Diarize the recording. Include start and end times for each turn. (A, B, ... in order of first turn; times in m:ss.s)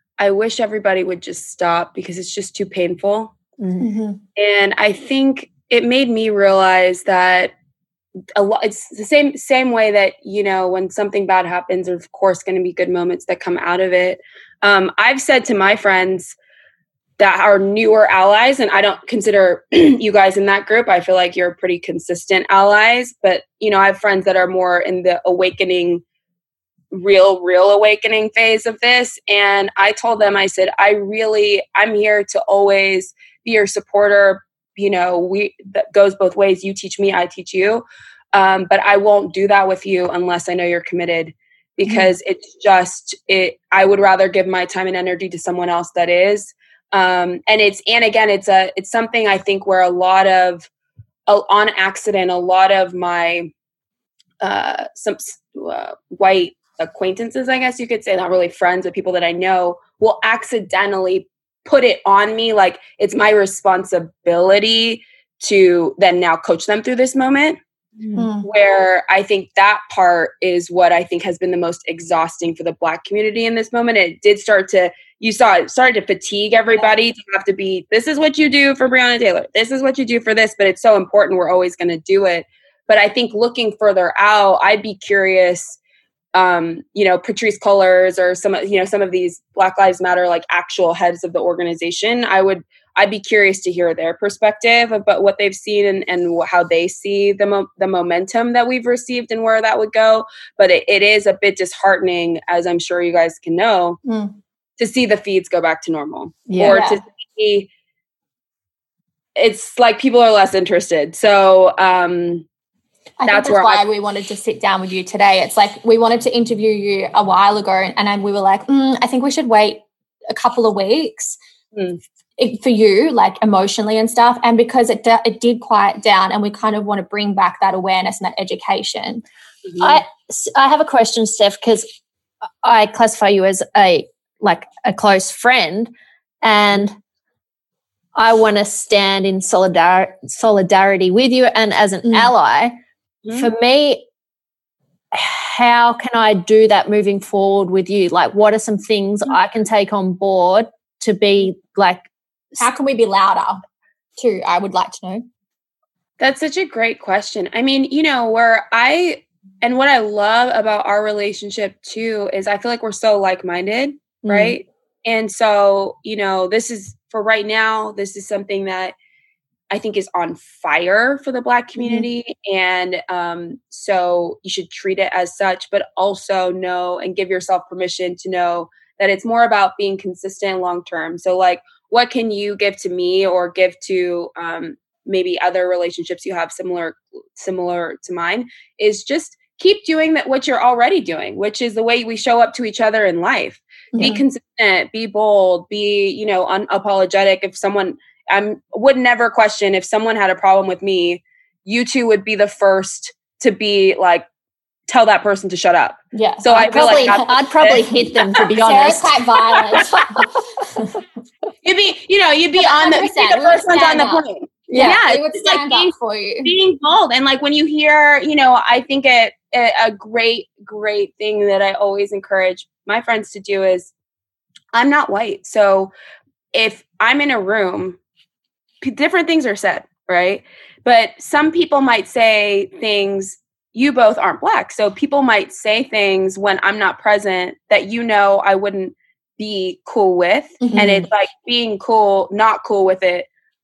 0:00.2-0:03.3 A
0:03.6-0:03.9 B
0:03.8-0:04.2 C
0:04.4-0:07.5 A
0:08.3-0:16.4 A
0:17.2-0:26.0 A
0:26.9-0:50.7 A
0:51.3-0:53.5 A
0:54.4-1:07.6 A
1:08.0-1:08.3 B
1:08.2-1:08.5 C
1:08.4-1:25.8 A
1:26.3-1:44.0 A
1:44.0-1:44.4 C
1:44.8-1:47.7 A
1:46.5-1:46.8 B
1:46.6-1:47.0 C
1:49.4-1:52.4 A
1:53.2-2:01.4 C
1:53.2-1:53.8 A
2:01.7-2:02.0 A
2:02.4-2:09.2 C
2:09.6-2:10.0 A
2:09.8-2:11.9 B
2:12.6-2:17.0 B
2:18.2-2:22.8 B
2:22.0-2:22.3 C
2:23.2-2:23.5 A
2:23.4-2:24.0 B
2:25.1-2:32.7 B
2:32.6-2:33.6 C
2:34.2-2:35.3 C
2:36.2-2:48.9 A
2:44.2-2:44.6 B
2:49.7-3:24.2 A
3:13.9-3:14.2 C
3:24.9-3:28.6 A
3:26.1-3:31.0 C
3:26.7-3:29.2 B
3:31.6-3:35.9 A
3:32.6-3:36.5 C
3:34.7-3:35.0 B
3:36.4-3:43.9 A
3:44.7-3:45.9 A
3:46.5-3:48.0 A
3:48.8-4:03.3 A
4:00.6-4:01.0 C
4:00.7-4:01.1 B